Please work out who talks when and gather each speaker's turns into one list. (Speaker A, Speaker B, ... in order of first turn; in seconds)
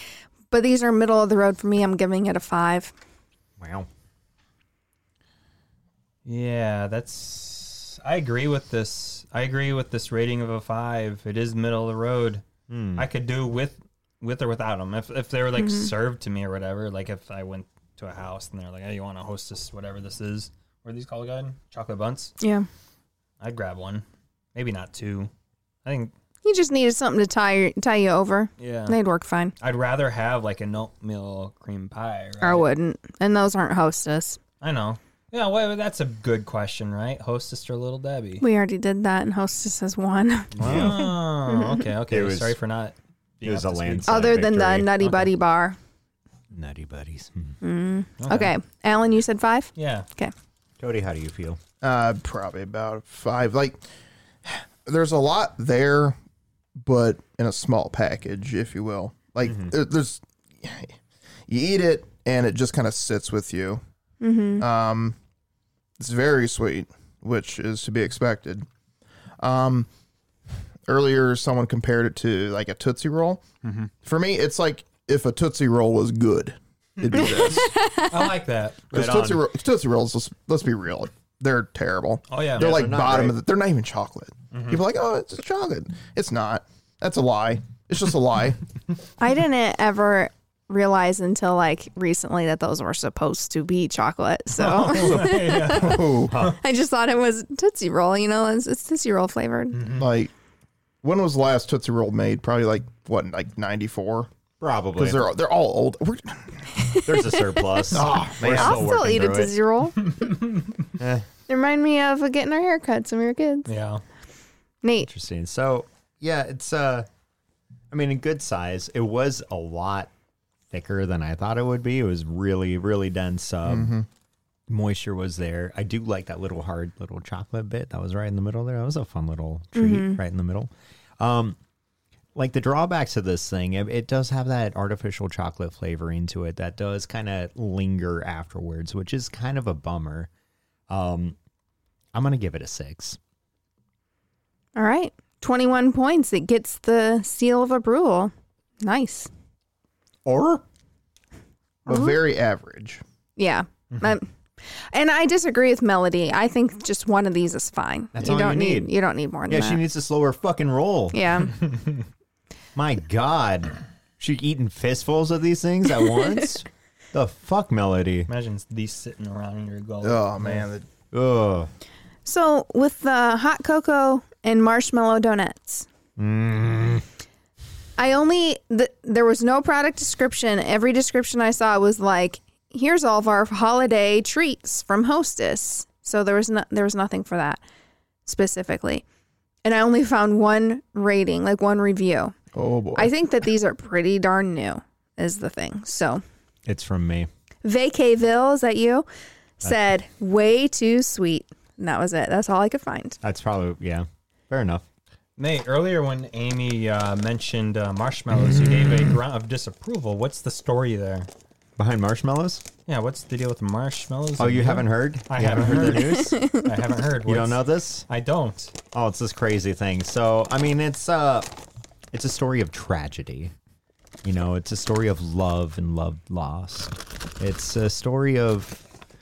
Speaker A: 0.5-2.9, 15.6-15.9, 22.4-22.7, 26.4-29.5, 32.4-34.4, 38.4-41.8, 44.1-45.8, 47.6-50.3, 64.2-64.6, 77.1-78.1, 89.2-99.8, 106.8-110.1, 111.5-113.7, 114.8-115.1, 129.8-130.2, 144.8-149.3, 151.9-152.2, 153.4-154.3, 154.8-159.8, 161.1-161.6, 172.2-175.9, 178.0-187.6, 188.2-189.0, 189.6-192.3, 192.9-196.2, 197.6-199.0, 199.6-203.2, 215.9-216.7
Speaker B: 3.6-3.9, 12.7-13.1, 40.6-41.1, 42.1-42.6, 43.4-44.9, 46.5-47.6, 50.8-51.6, 59.4-59.7, 78.9-79.4, 82.6-83.4, 96.3-96.6, 104.6-105.2, 106.9-109.5, 111.0-111.3, 115.0-117.1, 117.9-120.1, 120.7-123.9, 124.7-131.6, 132.3-140.3, 140.9-141.4, 142.1-143.2, 150.2-150.6, 158.1-158.9, 159.5-161.2, 162.8-168.3, 171.1-171.7, 176.2-177.0, 196.7-197.3, 203.2-204.8, 208.3-209.2, 211.8-212.6, 214.4-216.6, 217.2-218.1, 218.9-221.5, 222.1-223.5, 224.2-228.8
Speaker C: 6.2-12.4, 13.0-22.3, 23.4-25.3, 25.9-26.1, 28.6-29.0, 29.6-32.7, 34.6-38.5, 40.5-44.4, 45.0-45.3, 48.2-48.5, 49.8-50.1, 73.6-73.9, 78.0-79.3, 82.3-82.8, 84.5-84.8, 94.6-96.6, 99.7-100.1, 110.0-110.8, 113.7-114.0, 168.3-170.7, 205.4-211.3, 212.9-218.8
Speaker D: 51.8-53.8, 54.5-56.1, 56.8-60.9, 61.5-63.8, 64.6-65.2, 66.0-68.7, 69.4-69.9, 70.9-73.4, 74.0-77.8, 78.9-88.6, 95.2-96.5, 99.9-100.3, 101.0-104.3, 105.0-106.6, 107.9-108.8, 123.6-124.0, 151.9-153.0, 170.0-170.9, 192.5-193.1